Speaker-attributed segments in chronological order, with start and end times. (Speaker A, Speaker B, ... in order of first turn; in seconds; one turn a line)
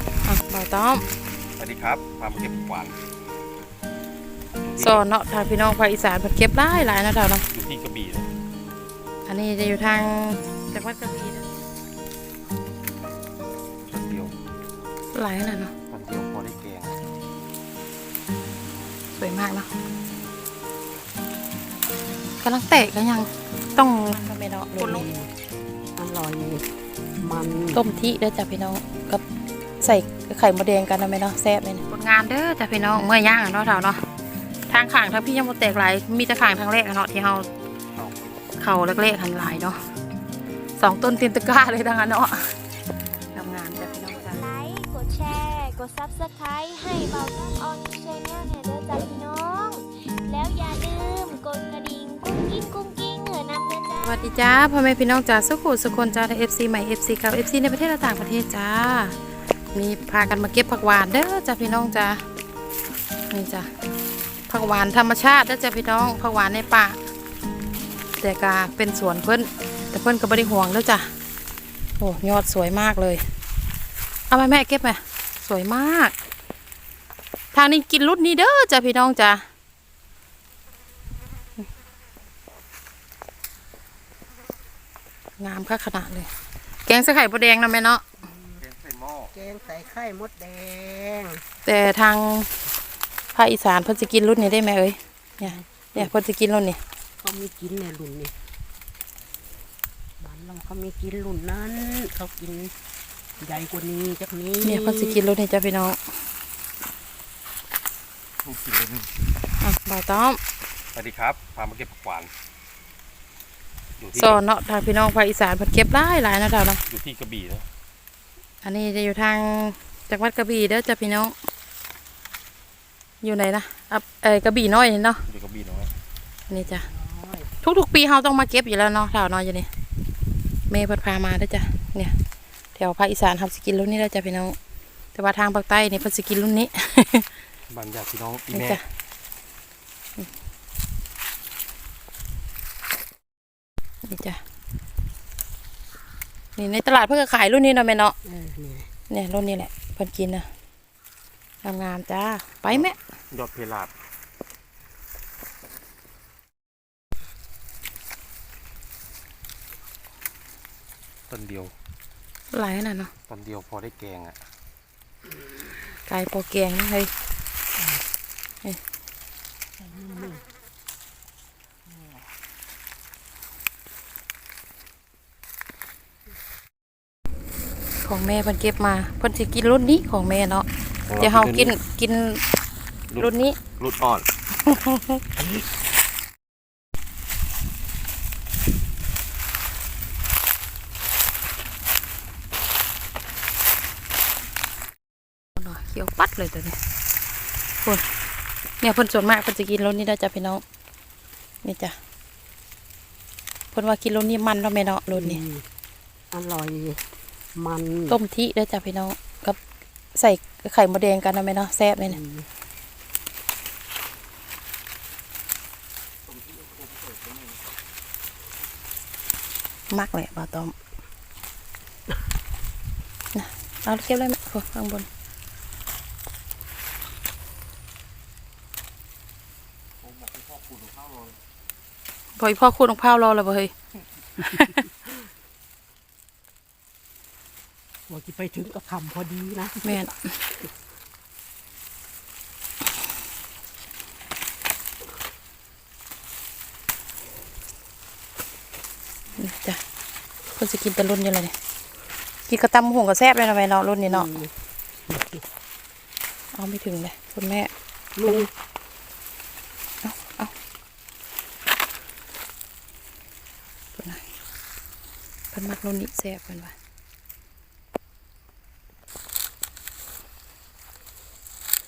Speaker A: 0.2-1.0
Speaker B: 1.6-3.0
Speaker B: 4.6-5.0
Speaker A: 4.8-7.5
Speaker B: 7.5-8.3
Speaker A: 9.3-11.5
Speaker B: 13.9-14.3
Speaker A: 15.1-15.7
Speaker B: 15.9-17.0
Speaker A: 19.1-19.7
Speaker A: 22.4-25.1
Speaker C: 24.7-25.3
Speaker C: 26.0-26.7
Speaker C: 27.2-27.8
Speaker A: 27.7-29.2
Speaker A: 29.8-34.0
Speaker A: 34.7-37.5
Speaker B: 37.9-38.4
Speaker A: 38.6-39.8
Speaker A: 40.8-42.5
Speaker A: 43.3-44.4
Speaker D: 43.7-54.3
Speaker A: 54.0-59.2
Speaker A: 59.7-62.2
Speaker A: 63.3-63.7
Speaker A: 64.5-67.0
Speaker A: 68.2-71.1
Speaker A: 72.0-73.2
Speaker A: 74.3-76.1
Speaker A: 77.5-79.4
Speaker A: 85.4-86.3
Speaker A: 86.8-88.1
Speaker C: 88.2-88.6
Speaker B: 88.6-89.3
Speaker C: 89.3-91.4
Speaker A: 91.7-92.5
Speaker A: 93.3-96.8
Speaker C: 95.4-96.1
Speaker C: 97.2-98.3
Speaker C: 100.2-102.7
Speaker C: 103.4-105.2
Speaker A: 104.6-106.0
Speaker B: 108.4-109.2
Speaker A: 109.6-110.4
Speaker B: 110.9-112.3
Speaker B: 114.0-114.4
Speaker A: 114.2-116.8
Speaker B: 116.9-117.7
Speaker A: 118.6-121.3
Speaker A: 123.2-125.2
Speaker B: 125.2-125.9
Speaker A: 126.5-126.9
Speaker C: 126.6-127.5
Speaker A: 127.6-129.7
Speaker A: 130.7-132.2
Speaker A: 132.8-134.6
Speaker A: 135.2-137.3
Speaker B: 137.7-138.8
Speaker A: 138.5-138.8
Speaker A: 144.0-144.4
Speaker A: 146.6-148.2
Speaker C: 148.2-148.9
Speaker A: 149.1-150.5
Speaker A: 151.6-153.0
Speaker B: 152.7-153.9
Speaker B: 161.3-161.7
Speaker A: 162.5-163.1
Speaker B: 163.3-164.4
Speaker A: 166.1-167.1
Speaker C: 167.8-168.0
Speaker C: 169.8-170.4
Speaker A: 178.0-180.7
Speaker B: 181.1-181.8
Speaker A: 181.2-182.4
Speaker B: 183.1-184.3
Speaker A: 183.2-183.6
Speaker A: 184.7-185.2
Speaker C: 185.4-185.7
Speaker A: 195.6-196.8
Speaker A: 198.8-200.6
Speaker A: 201.6-202.0
Speaker A: 203.7-205.4
Speaker C: 205.1-205.7
Speaker C: 206.3-208.2
Speaker A: 208.1-209.6
Speaker A: 210.2-212.2
Speaker C: 212.1-212.5
Speaker B: 216.3-217.6
Speaker A: 219.9-220.7
Speaker A: 223.3-225.1
Speaker B: 230.0-231.4
Speaker A: 232.4-233.7
Speaker A: 234.4-234.8
Speaker C: 238.1-240.7
Speaker A: 239.8-240.4
Speaker A: 249.4-249.8
Speaker A: 250.6-251.5
Speaker A: 252.5-254.3
Speaker C: 254.1-254.5
Speaker C: 255.1-255.4
Speaker A: 256.5-257.7
Speaker C: 258.2-258.5
Speaker A: 260.0-260.5
Speaker A: 263.9-264.2
Speaker A: 265.5-266.7